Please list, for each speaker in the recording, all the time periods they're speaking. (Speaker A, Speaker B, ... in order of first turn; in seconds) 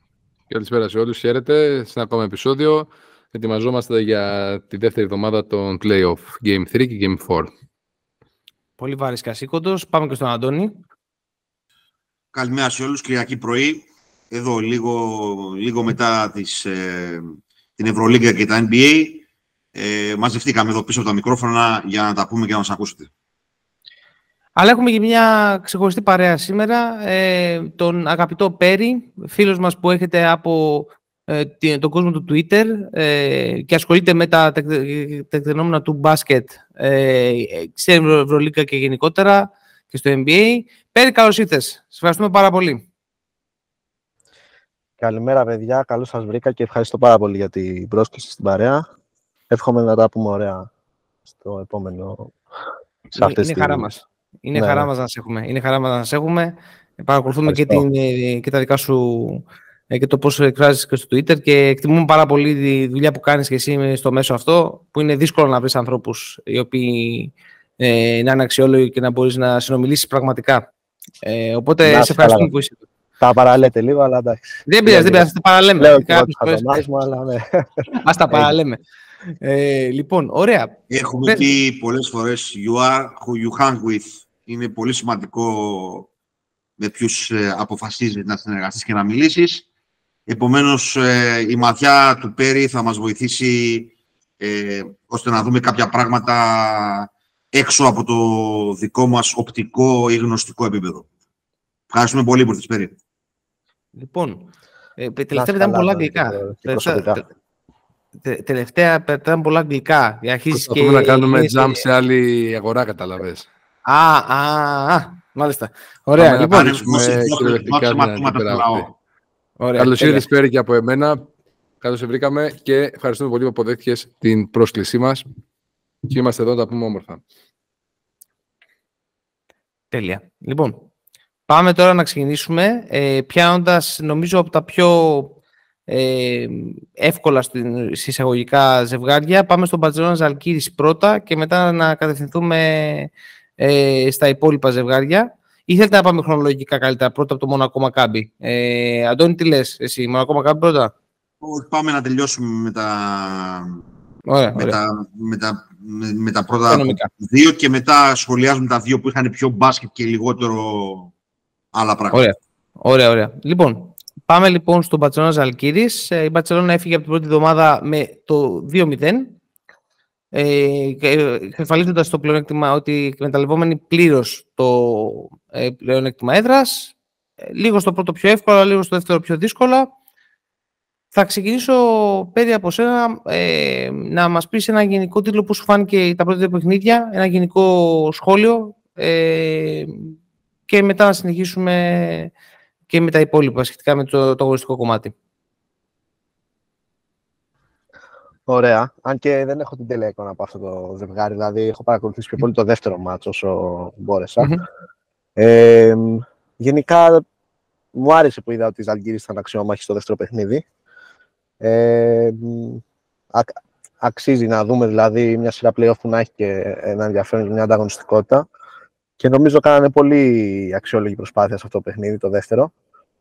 Speaker A: 0.5-7.5, 110.5-113.5, 116.2-118.9, 119.8-121.3, 121.8-125.2, 126.1-127.2
Speaker B: 8.8-10.8, 24.6-42.8, 53.1-70.7, 71.2-72.8, 74.7-76.8, 78.0-78.8, 79.4-81.5, 104.0-107.2, 108.2-111.8, 113.9-116.8, 119.6-120.2, 129.9-130.8, 131.5-135.4, 135.9-150.9, 154.3-154.8, 156.7-157.1, 162.1-169.4, 170.3-177.0, 177.5-179.9, 181.1-190.1, 190.7-192.3, 192.9-195.1
Speaker C: 12.3-23.1, 80.9-86.1, 86.8-89.7, 90.3-101.1, 101.9-103.0, 116.5-118.9, 151.4-153.8, 154.6-161.1, 161.7-162.3
Speaker D: 45.0-48.8, 49.5-50.7, 51.3-52.3, 53.1-53.9, 54.5-54.9, 57.5-57.8, 71.8-72.5, 73.2-78.5, 105.3-107.2, 198.5-204.5, 205.4-207.2, 207.9-210.6, 211.6-212.8, 213.3-218.4, 219.2-222.7